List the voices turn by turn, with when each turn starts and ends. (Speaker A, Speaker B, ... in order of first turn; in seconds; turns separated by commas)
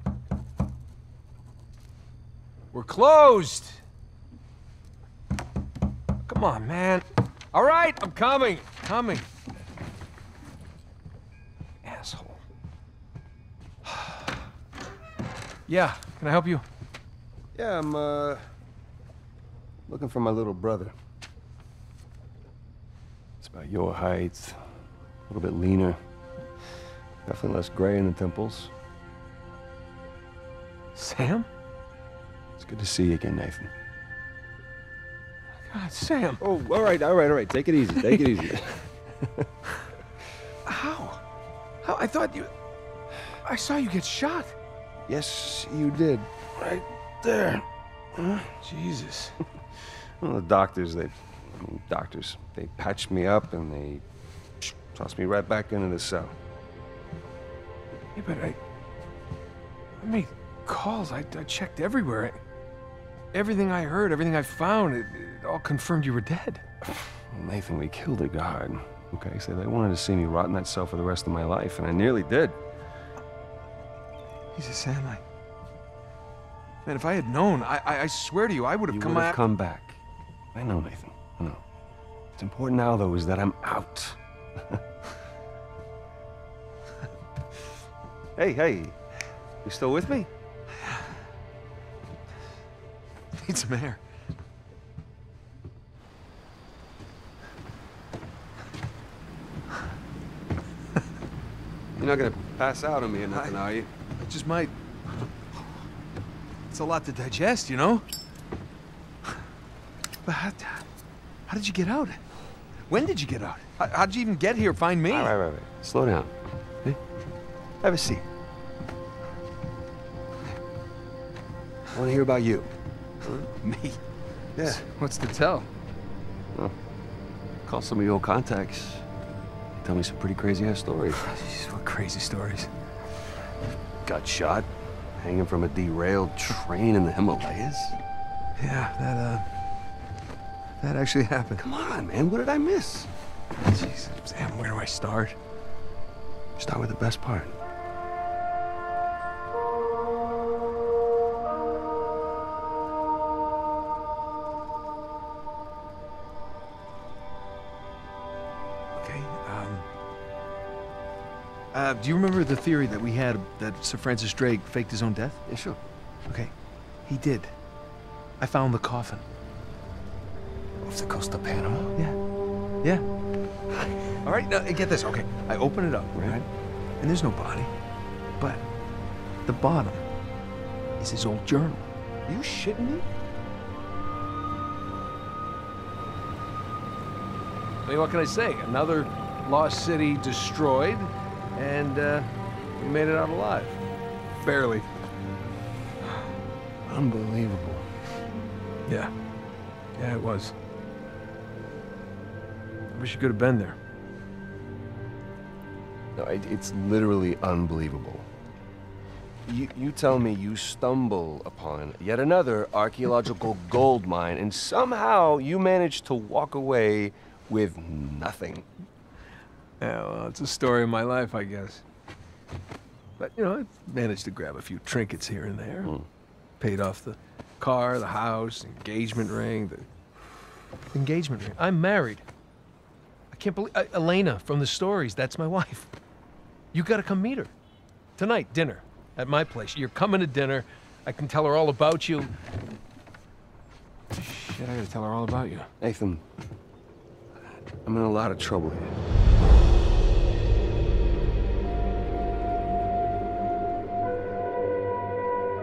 Speaker A: 2.7-3.8, Speaker A: 6.2-9.3, Speaker A: 11.8-12.4, Speaker A: 15.7-16.6, Speaker B: 17.6-18.4, Speaker B: 19.9-20.9, Speaker B: 23.4-24.6, Speaker B: 25.3-26.0, Speaker B: 27.3-28.7, Speaker A: 30.9-31.5, Speaker B: 32.6-33.7, Speaker A: 35.7-36.4, Speaker B: 36.4-39.4, Speaker A: 40.6-41.2, Speaker A: 41.8-42.5, Speaker A: 43.4-44.5, Speaker B: 45.1-48.5, Speaker A: 48.6-49.4, Speaker B: 50.2-54.0, Speaker B: 54.6-56.3, Speaker A: 58.1-58.6, Speaker A: 60.0-62.4, Speaker A: 63.3-66.6, Speaker B: 67.1-72.6, Speaker A: 74.5-75.2, Speaker A: 76.8-79.4, Speaker B: 78.9-80.0, Speaker B: 80.5-81.6, Speaker B: 82.4-84.8, Speaker B: 88.4-89.0, Speaker B: 89.6-90.3, Speaker A: 93.3-94.0, Speaker B: 102.0-103.9, Speaker A: 103.3-103.6, Speaker A: 104.2-104.7, Speaker A: 106.7-108.1, Speaker A: 110.2-110.9, Speaker A: 111.5-112.2, Speaker A: 112.9-115.3, Speaker B: 115.1-116.3, Speaker A: 117.8-118.2, Speaker B: 121.9-122.7, Speaker B: 123.2-123.6, Speaker A: 123.6-124.0, Speaker B: 124.6-124.8, Speaker A: 124.6-125.7, Speaker B: 127.7-129.1, Speaker B: 129.8-131.2, Speaker A: 131.2-132.7, Speaker B: 134.1-138.0, Speaker A: 138.6-139.4, Speaker A: 140.8-141.7, Speaker B: 141.6-143.1, Speaker A: 143.6-145.4, Speaker B: 146.6-147.6, Speaker A: 159.0-159.9, Speaker A: 161.7-165.4, Speaker B: 165.5-165.8, Speaker A: 167.1-167.5, Speaker A: 168.4-169.2, Speaker B: 170.8-172.0, Speaker A: 174.2-176.5, Speaker B: 176.1-176.4, Speaker A: 177.0-177.7, Speaker A: 178.4-178.6, Speaker A: 179.5-180.0, Speaker A: 181.0-183.1, Speaker A: 187.8-193.8, Speaker A: 194.4-194.9, Speaker B: 196.8-197.9, Speaker A: 200.0-200.6, Speaker A: 202.9-203.8, Speaker B: 206.2-208.3, Speaker B: 209.5-218.7, Speaker A: 219.8-221.8, Speaker A: 223.2-225.9, Speaker A: 226.6-229.9, Speaker A: 230.9-232.2, Speaker A: 233.3-235.9, Speaker A: 236.7-237.5, Speaker A: 238.2-242.3, Speaker A: 244.1-245.7, Speaker B: 245.8-246.2, Speaker B: 247.8-248.9